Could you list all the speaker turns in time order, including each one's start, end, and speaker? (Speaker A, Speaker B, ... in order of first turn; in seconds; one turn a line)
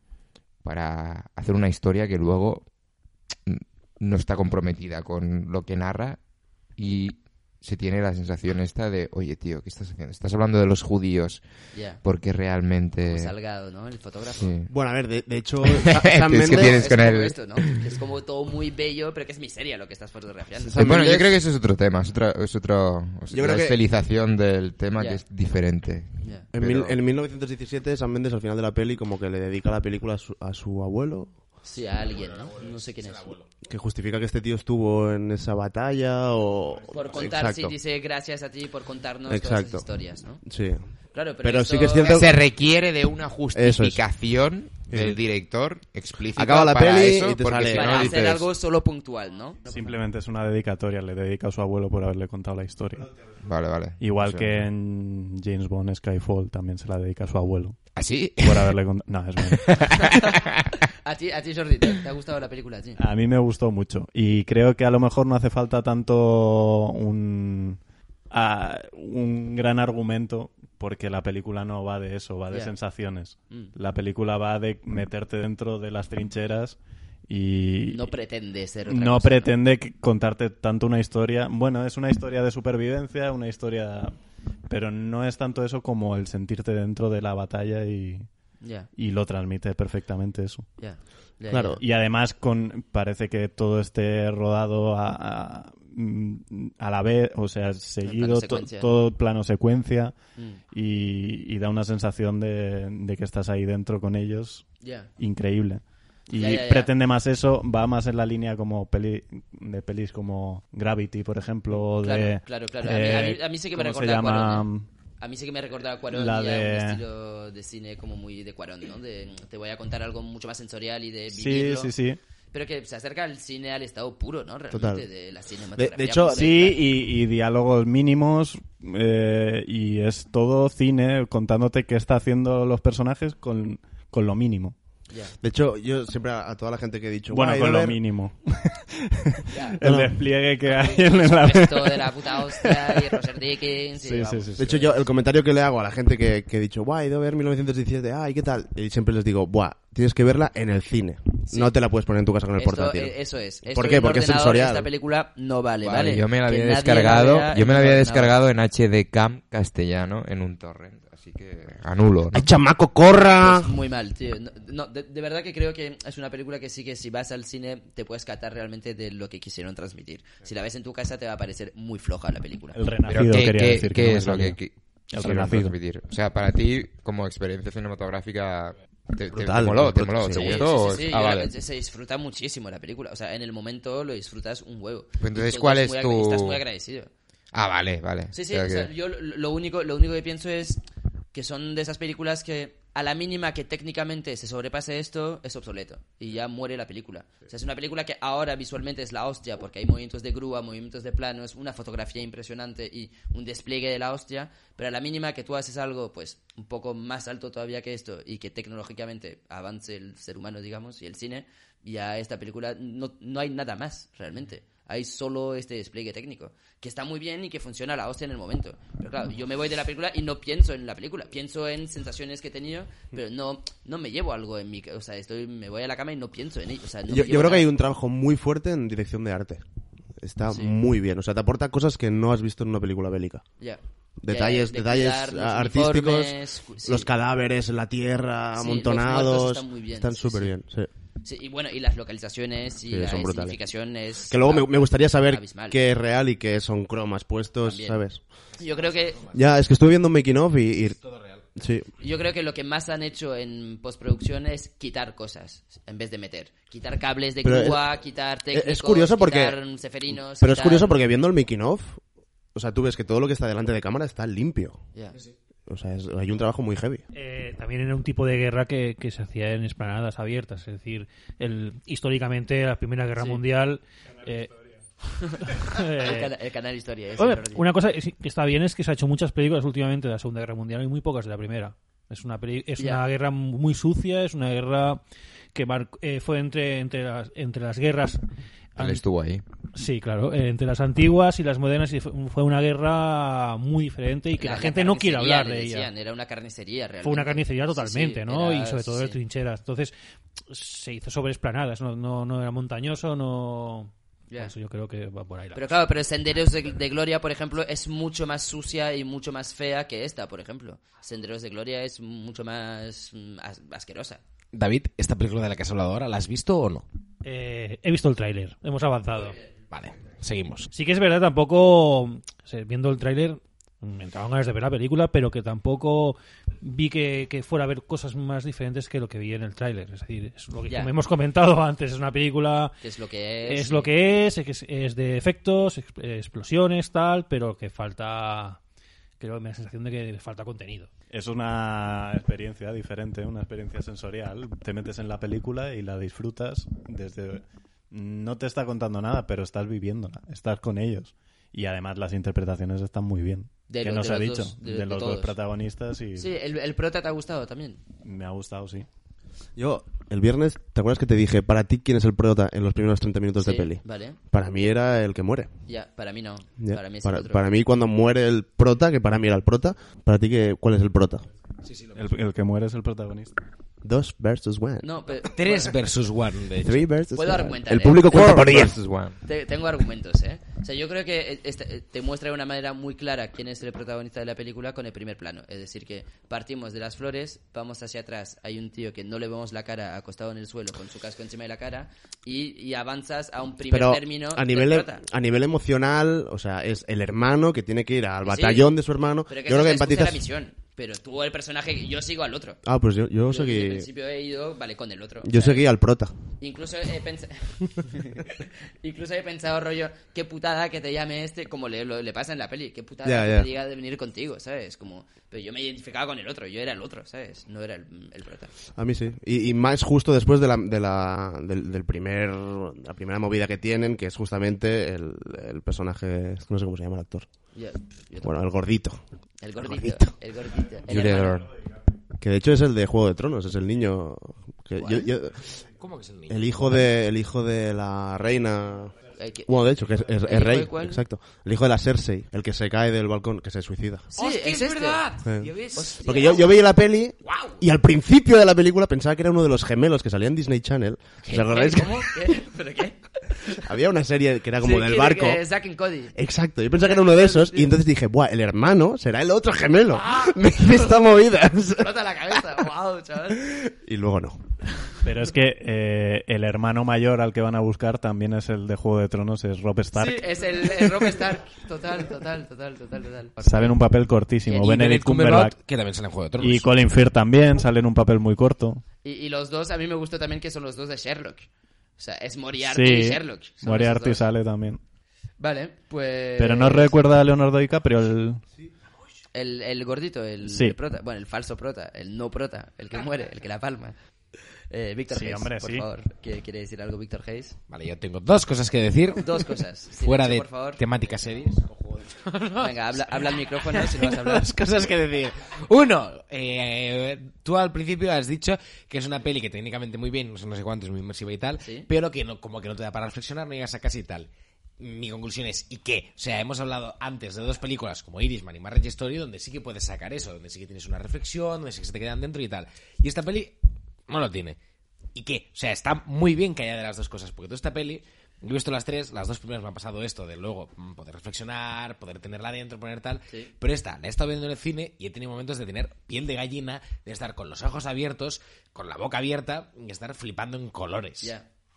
Speaker A: 0.6-2.7
Speaker A: 3.5-6.2
Speaker A: 6.8-11.4
Speaker B: 11.7-12.0
Speaker A: 12.0-13.3
Speaker B: 13.0-14.5
Speaker A: 14.4-14.7
Speaker C: 14.7-16.9
Speaker A: 15.7-17.9
Speaker B: 16.5-20.8
Speaker C: 20.7-21.4
Speaker A: 20.8-27.0
Speaker C: 23.3-23.8
Speaker B: 25.0-25.2
Speaker B: 26.2-26.5
Speaker C: 26.5-31.3
Speaker B: 31.6-33.3
Speaker D: 32.0-33.5
Speaker C: 33.7-37.8
Speaker B: 36.9-40.4
Speaker C: 39.3-39.9
Speaker C: 40.4-40.9
Speaker B: 41.1-42.3
Speaker C: 41.4-42.4
Speaker A: 42.0-48.5
Speaker C: 43.5-44.0
Speaker C: 44.9-45.2
Speaker C: 46.3-48.2
Speaker B: 47.7-49.6
Speaker E: 49.6-53.1
Speaker A: 53.4-54.7
Speaker E: 54.0-57.9
Speaker A: 58.0-58.7
Speaker E: 58.4-59.9
Speaker A: 59.6-60.8
Speaker B: 61.0-63.0
Speaker E: 63.0-78.1
Speaker B: 77.9-79.5
Speaker E: 78.9-84.2
Speaker E: 84.7-88.3
Speaker B: 88.6-88.9
Speaker E: 89.0-90.7
Speaker B: 90.8-91.8
Speaker C: 91.5-91.8
Speaker E: 91.8-100.2
Speaker B: 98.0-98.9
Speaker B: 100.4-100.6
Speaker E: 100.7-114.9
Speaker B: 104.8-105.1
Speaker B: 106.3-106.9
Speaker B: 112.0-114.7
Speaker B: 115.2-121.9
Speaker E: 116.1-117.0
Speaker E: 121.3-122.2
Speaker B: 122.5-126.8
Speaker C: 124.7-125.1
Speaker C: 125.8-126.7
Speaker E: 126.3-134.8
Speaker C: 135.4-138.0
Speaker E: 137.3-143.2
Speaker B: 139.5-139.8
Speaker C: 139.8-140.2
Speaker B: 140.7-144.8
Speaker E: 144.0-144.9
Speaker C: 144.6-154.9
Speaker B: 152.6-158.4
Speaker A: 155.8-162.5
Speaker C: 162.4-163.7
Speaker B: 163.4-172.8
Speaker E: 172.8-174.6
Speaker A: 173.1-181.5
Speaker E: 175.1-175.8
Speaker C: 179.3-180.7
Speaker B: 180.3-187.1
Speaker A: 185.2-186.6
Speaker A: 187.5-188.9
Speaker B: 188.3-190.8
Speaker B: 191.3-227.7
Speaker C: 227.1-229.6
Speaker C: 230.2-233.5
Speaker B: 230.5-230.8
Speaker B: 233.6-237.1
Speaker C: 234.2-240.9
Speaker B: 238.6-240.5
Speaker B: 241.2-245.8
Speaker C: 242.9-243.6
Speaker C: 244.3-248.2
Speaker B: 247.6-248.0
Speaker D: 248.6-249.4
Speaker B: 248.6-249.2
Speaker C: 249.3-251.0
Speaker D: 251.0-251.4
Speaker C: 251.6-251.9
Speaker B: 252.0-261.0
Speaker C: 257.4-257.8
Speaker C: 258.5-259.6
Speaker C: 260.4-262.0
Speaker C: 262.6-264.8
Speaker C: 265.7-267.1
Speaker F: 267.1-274.6
Speaker B: 275.2-277.7
Speaker F: 275.4-276.3
Speaker F: 277.2-285.0
Speaker F: 285.5-288.2
Speaker F: 288.8-289.0
Speaker A: 288.8-289.4
Speaker F: 289.8-295.9
Speaker B: 294.4-299.2
Speaker F: 297.0-299.9
Speaker F: 300.5-305.8
Speaker B: 305.6-314.2
Speaker D: 314.5-316.9
Speaker F: 317.2-319.4
Speaker D: 319.7-320.7
Speaker F: 320.7-332.8
Speaker B: 332.8-333.9
Speaker F: 333.5-338.6
Speaker F: 339.2-340.9
Speaker E: 341.1-356.3
Speaker B: 353.7-355.4
Speaker B: 356.2-357.8
Speaker E: 358.0-358.9
Speaker C: 359.6-365.5
Speaker B: 363.4-364.2
Speaker B: 365.7-367.5
Speaker C: 366.6-371.3
Speaker D: 371.6-372.1
Speaker E: 371.9-373.3
Speaker C: 373.8-374.9
Speaker B: 374.8-375.8
Speaker D: 375.2-376.9
Speaker C: 376.6-378.8
Speaker B: 377.1-378.5
Speaker A: 378.1-379.2
Speaker B: 379.2-395.0
Speaker C: 393.7-400.2
Speaker B: 398.2-398.7
Speaker B: 399.3-402.6
Speaker C: 402.6-403.9
Speaker B: 403.3-405.7
Speaker C: 405.2-406.1
Speaker B: 406.4-418.5
Speaker C: 413.0-413.5
Speaker C: 418.8-427.3
Speaker B: 427.6-428.4
Speaker C: 428.2-429.0
Speaker B: 429.4-431.4
Speaker C: 429.6-430.1
Speaker A: 430.9-431.5
Speaker C: 432.2-435.5
Speaker B: 434.8-435.1
Speaker D: 435.8-436.8
Speaker C: 436.3-444.1
Speaker B: 439.1-441.0
Speaker B: 444.1-445.1
Speaker D: 444.2-446.5
Speaker C: 445.2-445.5
Speaker B: 445.7-446.5
Speaker C: 446.0-452.2
Speaker D: 447.2-447.6
Speaker B: 451.3-453.6
Speaker C: 453.6-455.4
Speaker B: 454.6-456.1
Speaker C: 456.1-461.9
Speaker B: 456.8-457.8
Speaker B: 461.8-463.5
Speaker C: 463.5-464.4
Speaker E: 465.0-470.9
Speaker B: 469.9-473.8
Speaker E: 473.4-475.6
Speaker D: 474.5-476.8
Speaker E: 476.4-478.8
Speaker B: 479.0-484.3
Speaker E: 482.6-484.8
Speaker B: 485.4-487.0
Speaker E: 486.4-488.4
Speaker B: 489.3-494.0
Speaker E: 490.4-490.8
Speaker B: 494.7-497.6
Speaker E: 495.1-495.9
Speaker D: 497.7-523.6
Speaker B: 499.2-500.8
Speaker B: 502.6-504.5
Speaker B: 511.6-511.9
Speaker D: 524.1-524.6
Speaker D: 525.1-541.3